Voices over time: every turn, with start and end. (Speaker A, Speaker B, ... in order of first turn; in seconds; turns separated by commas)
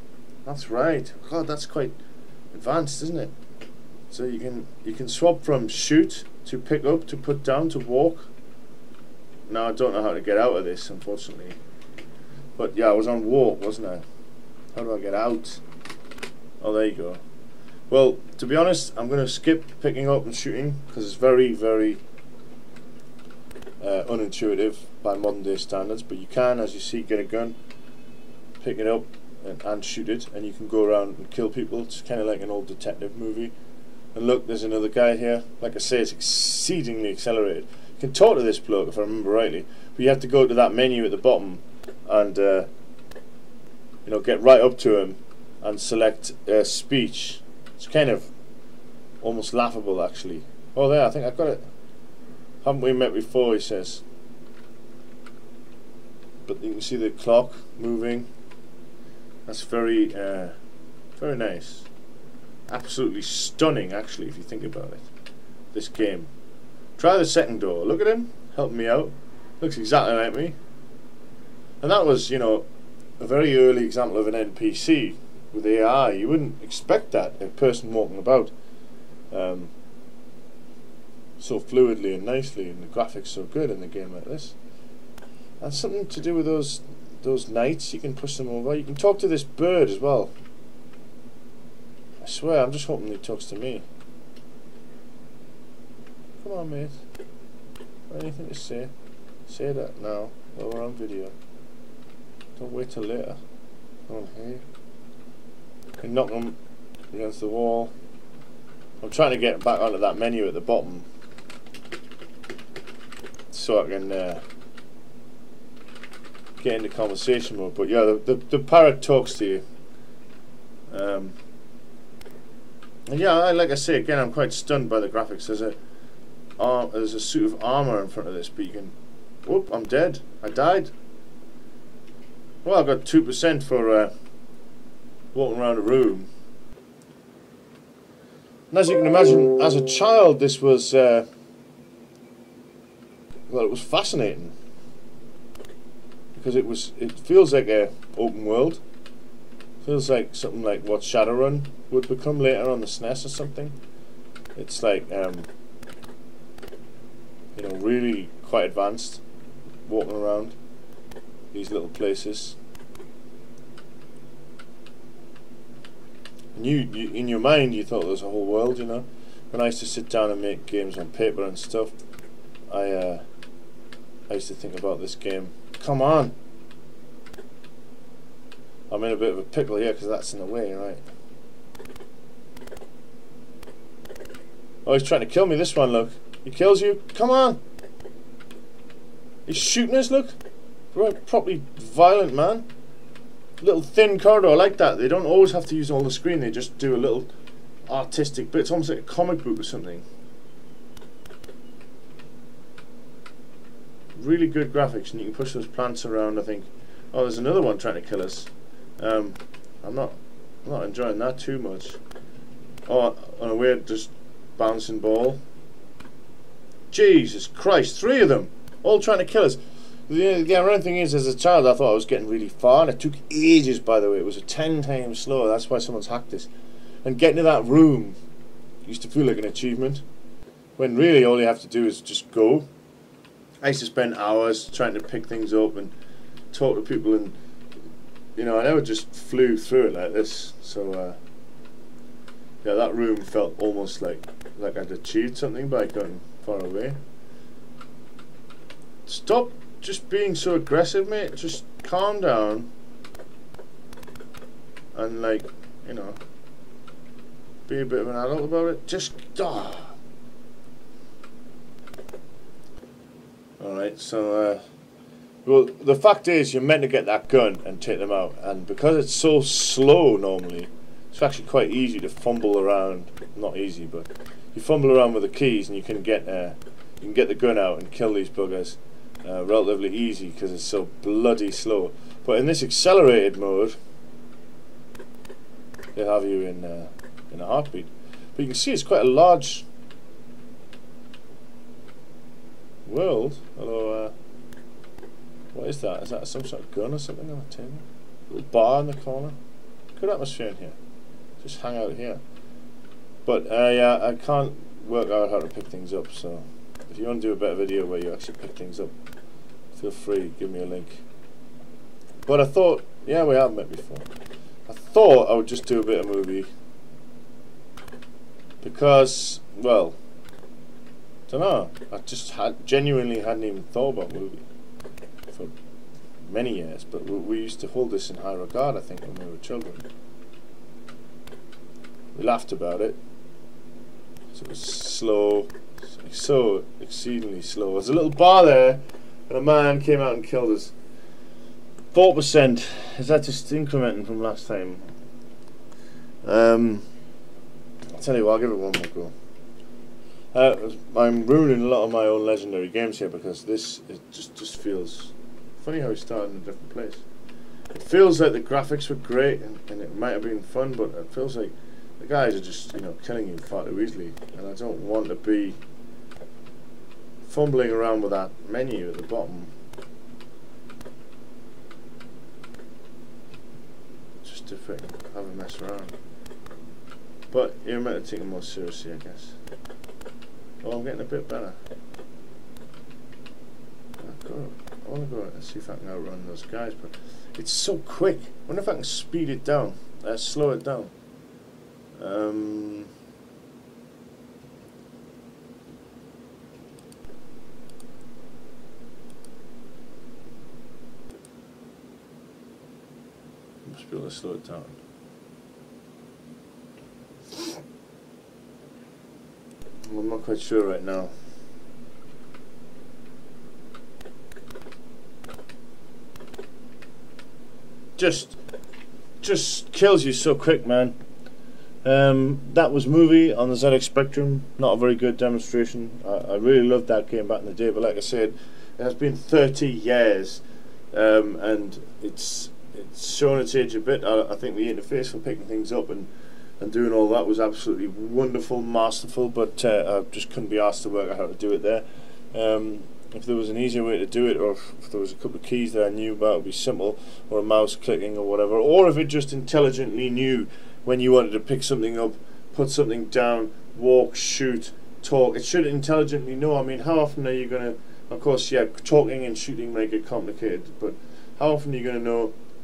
Speaker A: 0.4-1.9, Speaker A: 2.5-3.3, Speaker A: 4.1-8.3, Speaker A: 9.5-11.6, Speaker A: 12.6-14.0, Speaker A: 14.7-15.6, Speaker A: 16.6-17.2, Speaker A: 17.9-22.0, Speaker A: 23.8-27.6, Speaker A: 28.6-33.5, Speaker A: 34.1-42.7, Speaker A: 44.0-48.3, Speaker A: 49.2-51.6, Speaker A: 52.6-54.0, Speaker A: 56.4-58.3, Speaker A: 59.5-60.5, Speaker A: 61.1-61.9, Speaker A: 62.7-65.1, Speaker A: 65.7-66.3, Speaker A: 67.0-70.5, Speaker A: 71.8-72.7, Speaker A: 73.2-78.5, Speaker A: 79.3-79.7, Speaker A: 81.4-84.5, Speaker A: 85.6-90.3, Speaker A: 92.2-93.8, Speaker A: 96.4-97.0, Speaker A: 98.1-98.9, Speaker A: 99.5-101.3, Speaker A: 102.6-103.4, Speaker A: 104.1-104.6, Speaker A: 106.0-106.6, Speaker A: 107.1-107.9, Speaker A: 109.0-111.0, Speaker A: 113.5-114.4, Speaker A: 116.6-119.6, Speaker A: 120.9-121.3, Speaker A: 123.1-125.8, Speaker A: 126.6-130.9, Speaker A: 132.6-134.1, Speaker A: 135.3-136.3, Speaker A: 138.7-141.3, Speaker A: 143.5-144.5, Speaker A: 146.3-148.8, Speaker A: 149.8-153.7, Speaker A: 154.6-155.5, Speaker A: 157.5-159.2, Speaker A: 159.8-160.6, Speaker A: 161.5-162.6, Speaker A: 166.5-171.9, Speaker A: 172.7-173.2, Speaker A: 174.3-176.3, Speaker A: 178.9-181.0, Speaker A: 184.8-187.6, Speaker A: 189.4-190.4, Speaker A: 190.9-192.7, Speaker A: 193.6-197.3, Speaker A: 197.9-200.0, Speaker A: 204.2-212.0, Speaker A: 212.9-215.4, Speaker A: 216.9-226.5, Speaker A: 227.0-228.2, Speaker A: 228.8-230.0, Speaker A: 230.8-232.7, Speaker A: 233.6-235.9, Speaker A: 236.5-237.3, Speaker A: 238.3-241.2, Speaker A: 242.6-247.0, Speaker A: 249.1-252.7, Speaker A: 254.9-256.2, Speaker A: 257.7-259.9, Speaker A: 263.6-264.6, Speaker A: 265.4-283.8, Speaker A: 285.9-289.7, Speaker A: 292.9-294.1, Speaker A: 295.5-299.4, Speaker A: 299.9-300.8, Speaker A: 301.4-302.2, Speaker A: 303.2-308.9, Speaker A: 309.7-311.0, Speaker A: 312.2-314.1, Speaker A: 314.7-316.5, Speaker A: 318.6-320.0, Speaker A: 321.3-324.4, Speaker A: 326.3-329.9, Speaker A: 332.1-333.0, Speaker A: 334.3-340.7, Speaker A: 341.9-344.9, Speaker A: 346.2-346.9, Speaker A: 347.9-349.1, Speaker A: 350.3-357.0, Speaker A: 357.7-365.6, Speaker A: 367.2-369.5, Speaker A: 374.2-375.9, Speaker A: 377.3-379.4, Speaker A: 380.6-381.6, Speaker A: 384.0-390.9, Speaker A: 391.9-392.9, Speaker A: 403.6-404.8, Speaker A: 409.9-411.1, Speaker A: 417.9-418.4, Speaker A: 419.2-421.0, Speaker A: 421.8-436.1, Speaker A: 436.6-462.3